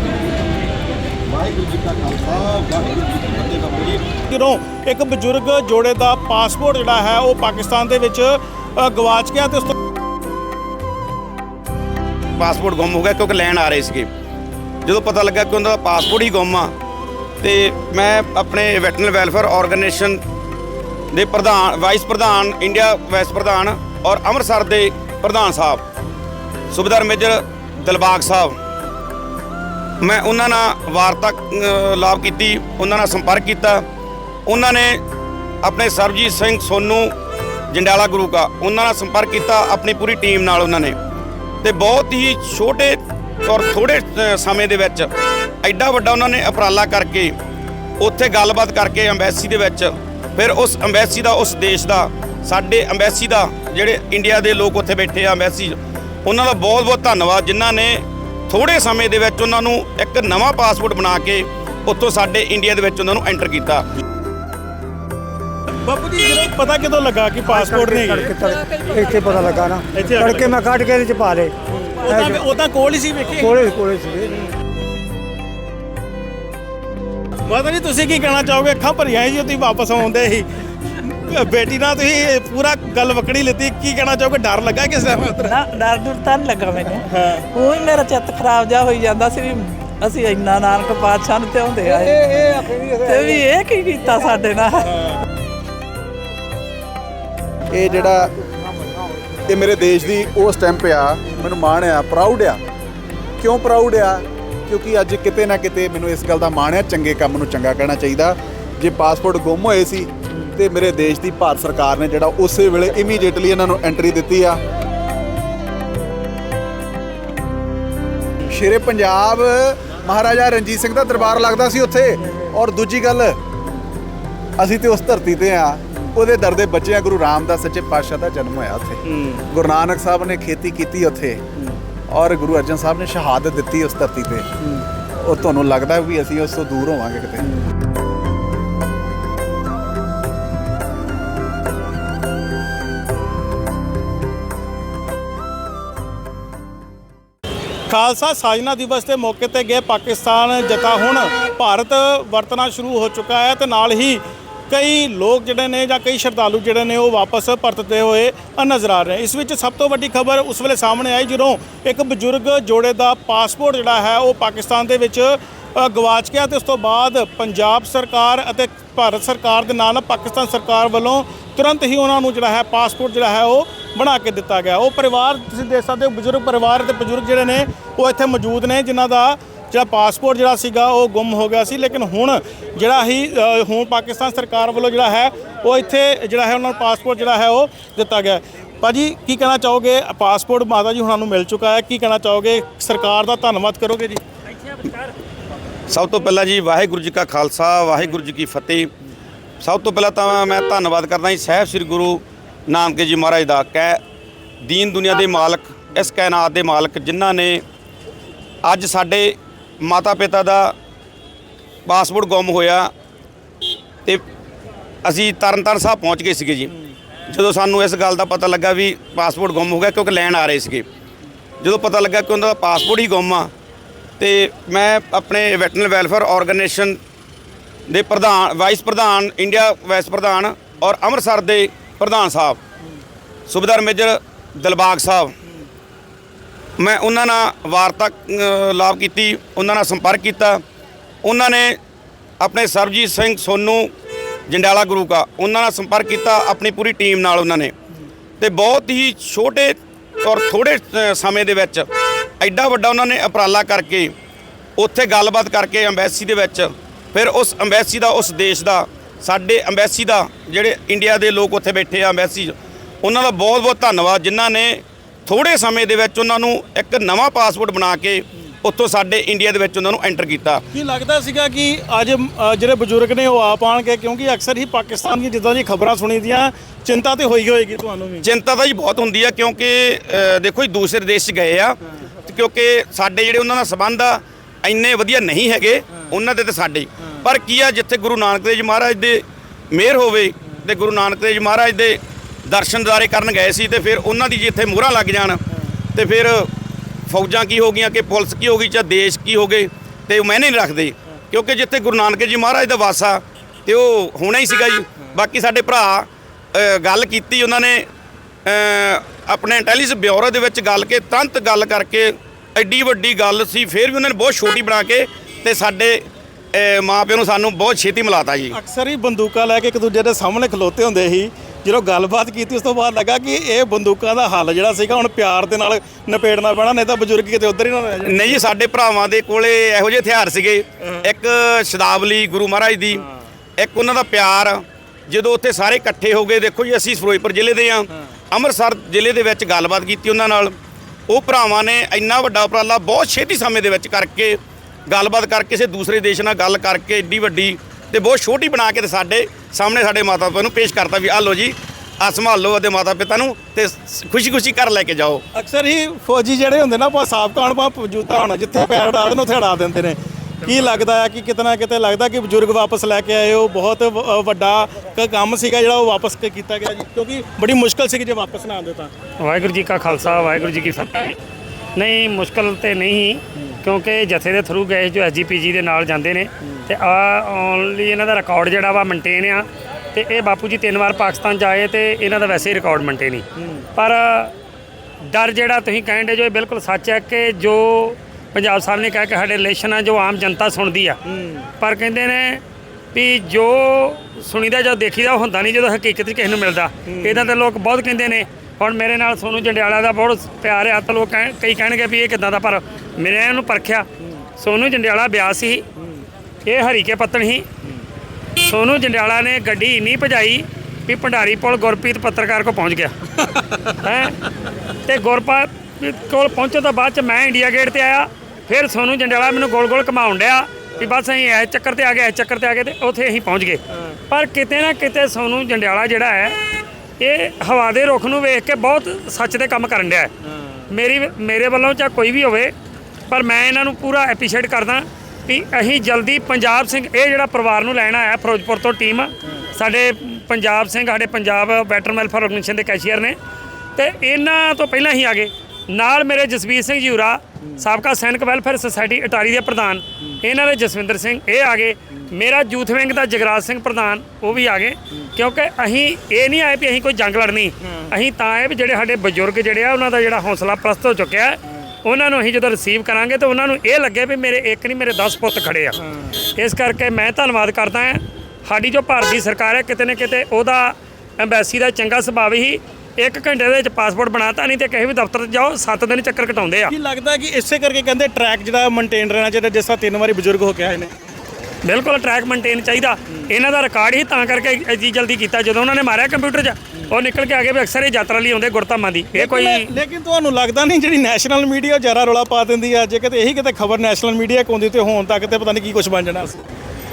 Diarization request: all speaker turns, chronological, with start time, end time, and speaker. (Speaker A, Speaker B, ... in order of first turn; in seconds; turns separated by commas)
Speaker A: 2.2-2.7, Speaker B: 4.3-9.7, Speaker A: 12.4-14.1, Speaker A: 14.8-16.7, Speaker A: 17.4-20.2, Speaker A: 21.1-25.8, Speaker A: 26.7-28.5, Speaker A: 30.0-33.8, Speaker A: 34.5-35.0, Speaker A: 35.6-37.1, Speaker A: 37.7-41.0, Speaker A: 41.6-45.1, Speaker A: 45.6-47.3, Speaker A: 48.0-63.8, Speaker B: 65.8-68.3, Speaker C: 67.4-71.5, Speaker B: 69.9-70.5, Speaker B: 71.8-73.6, Speaker C: 72.1-72.5, Speaker C: 73.4-74.3, Speaker B: 77.5-80.5, Speaker B: 81.0-85.5, Speaker D: 85.4-95.0, Speaker C: 92.7-93.4, Speaker E: 97.7-98.3, Speaker E: 99.5-102.6, Speaker E: 103.4-114.6, Speaker E: 118.5-123.4, Speaker E: 124.6-131.4, Speaker B: 129.1-129.4, Speaker E: 132.1-134.5, Speaker E: 135.2-137.5, Speaker B: 147.9-194.2, Speaker F: 194.5-195.1, Speaker A: 195.9-198.9, Speaker A: 199.6-204.0, Speaker A: 204.6-207.6, Speaker A: 208.7-210.7, Speaker A: 211.9-212.9, Speaker A: 215.1-216.7, Speaker A: 217.3-220.8, Speaker A: 221.6-223.5, Speaker A: 224.2-227.0, Speaker A: 227.9-232.6, Speaker A: 233.5-235.3, Speaker A: 236.8-240.6, Speaker A: 241.2-241.8, Speaker A: 242.4-243.9, Speaker A: 244.5-247.7, Speaker A: 248.4-251.8, Speaker A: 252.4-254.1, Speaker A: 254.8-270.6, Speaker B: 270.7-278.3, Speaker A: 278.2-295.4, Speaker A: 295.9-296.5, Speaker A: 297.1-307.9, Speaker A: 308.5-316.0, Speaker A: 316.6-318.6, Speaker B: 318.5-328.4, Speaker A: 328.1-333.1, Speaker A: 333.6-340.6, Speaker A: 341.1-355.2, Speaker B: 355.3-368.9, Speaker F: 369.2-371.2, Speaker F: 371.8-384.3, Speaker B: 383.4-383.6, Speaker F: 385.1-391.0, Speaker B: 391.1-391.4, Speaker F: 391.6-392.4, Speaker F: 392.9-403.9, Speaker B: 396.9-397.2, Speaker F: 404.4-405.6, Speaker F: 406.5-407.5, Speaker F: 408.4-412.9, Speaker F: 413.6-414.2, Speaker F: 414.9-426.4, Speaker F: 427.0-430.1, Speaker F: 430.7-432.5, Speaker F: 433.1-443.2, Speaker F: 443.8-465.8, Speaker F: 466.4-476.7, Speaker B: 476.7-480.9, Speaker F: 481.6-489.7, Speaker B: 489.1-496.4